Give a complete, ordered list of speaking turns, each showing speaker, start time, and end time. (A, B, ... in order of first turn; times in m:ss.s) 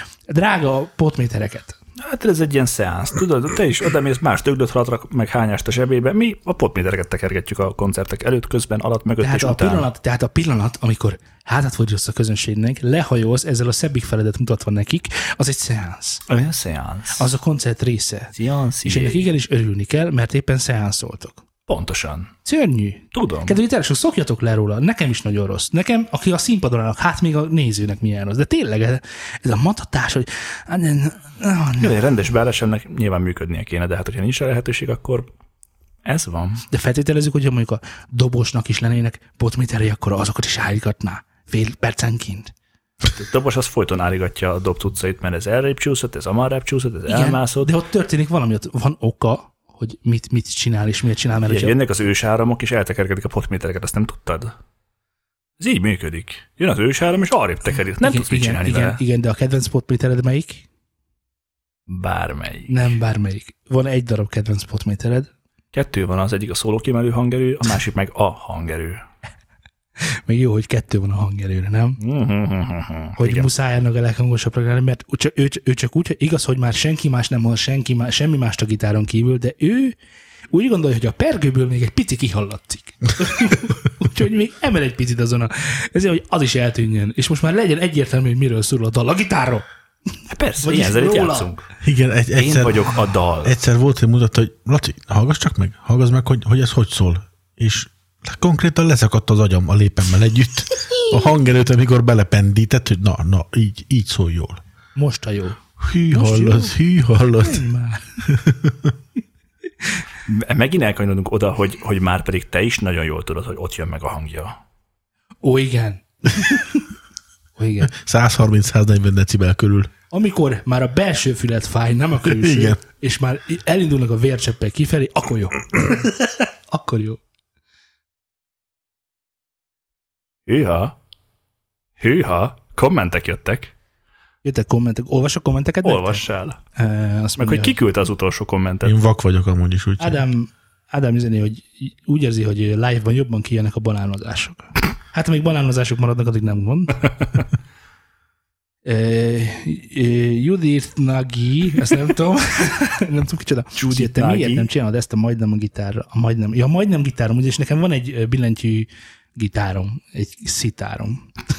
0:00.3-0:01.8 A
0:02.0-0:09.9 B
0:09.2-0:16.2 A
0:16.3-0:17.3 B
0:17.1-0:18.3 A
0:18.4-0:19.3 B
0:18.8-0:21.4 A
0:21.7-0:22.3 B
0:22.4-0:32.0 A
0:23.1-0:23.6 B
0:31.8-0:35.3 B
0:36.0-0:36.6 B
0:36.7-0:42.5 A
0:43.1-0:47.7 B
0:47.1-0:51.8 A
0:51.5-0:54.5 B
0:55.6-0:59.0 B
0:58.0-1:00.6 A
1:01.9-1:02.9 B
1:02.7-1:05.3 A
1:05.7-1:09.0 B
1:10.0-1:12.0 A
1:12.0-1:13.5 B
1:13.2-1:20.0 A
1:20.5-1:29.6 A
1:30.3-1:31.6 B
1:30.6-1:31.5 A
1:31.8-1:32.9 C
1:32.4-1:33.6 B
1:33.4-1:44.6 C
1:45.0-1:46.8 A
1:45.8-1:47.6 C
1:47.4-1:48.2 A
1:48.2-1:48.9 C
1:50.3-1:54.6 B
1:55.4-1:56.9 A
1:57.6-1:57.9 A
1:57.8-1:59.9 C
2:00.1-2:07.2 A
2:02.2-2:02.8 C
2:10.5-2:11.0 B
2:12.0-2:13.7 B
2:14.4-2:16.2 A
2:15.8-2:16.6 B
2:16.8-2:17.8 A
2:17.4-2:19.0 B
2:18.8-2:20.2 C
2:20.0-2:27.0 A
2:28.8-2:41.3 A
2:33.8-2:34.7 B